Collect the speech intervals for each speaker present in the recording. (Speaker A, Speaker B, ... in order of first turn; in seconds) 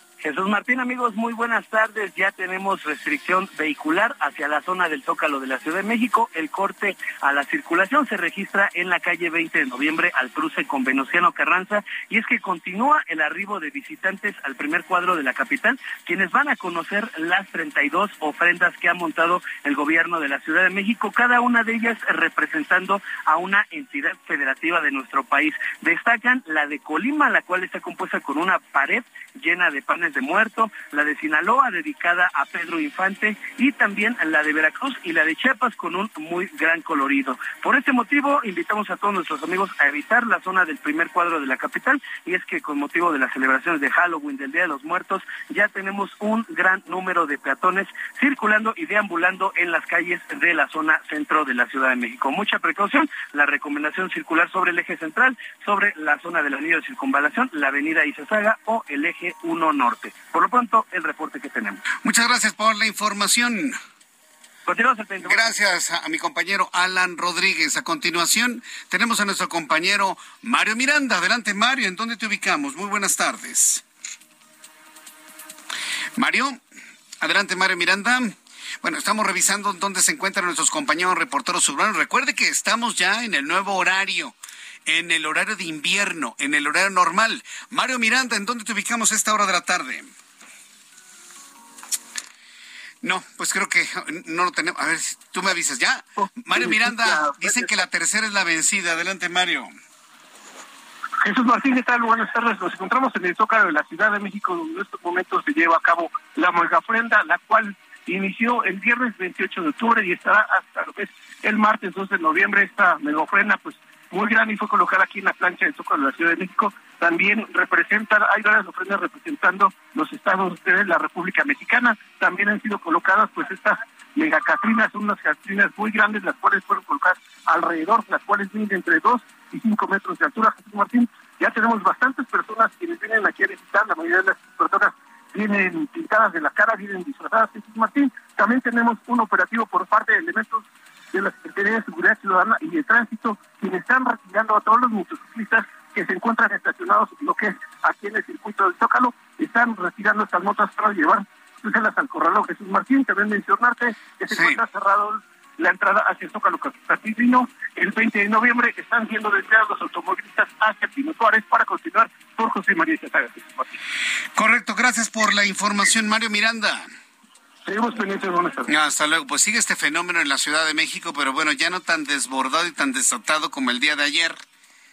Speaker A: 0.2-61.8, 64.7-65.5
Speaker B: 62.0-63.8, 65.2-73.8, 76.2-76.6, 77.2-84.3, 84.8-90.1, 93.0-99.7, 154.3-154.6, 164.3-166.9, 168.7-174.4
Speaker C: 96.2-97.7, 101.2-163.7, 167.7-168.7